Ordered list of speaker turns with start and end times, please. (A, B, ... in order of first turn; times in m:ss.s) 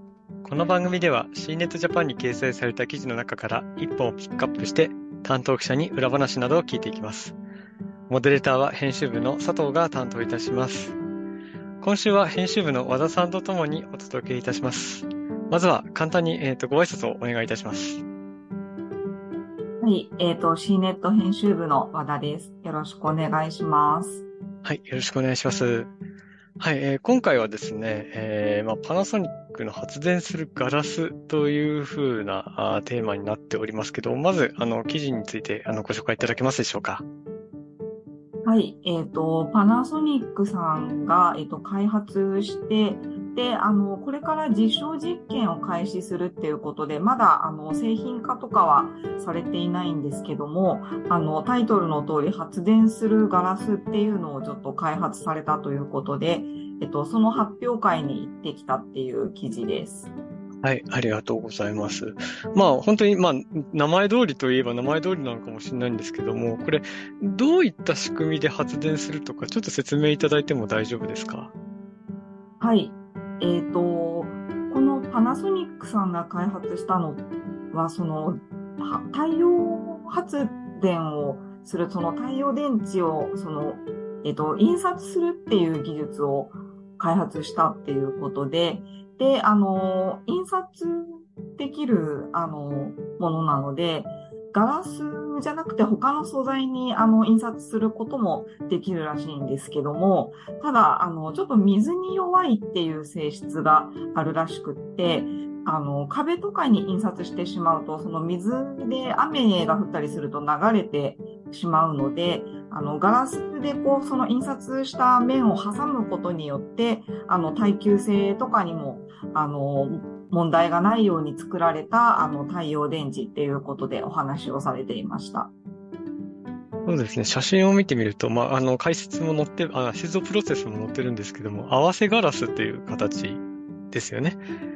0:00.4-0:07.4 A
0:08.1-0:11.0 A
0:11.8-0:18.0 A
0:19.8-0:24.2 B
0:24.6-0:25.9 A
0:26.6-0:37.0 A
0:38.4-1:00.1 B
1:00.6-1:11.5 A
1:12.6-2:05.5 B
2:06.8-2:14.4 A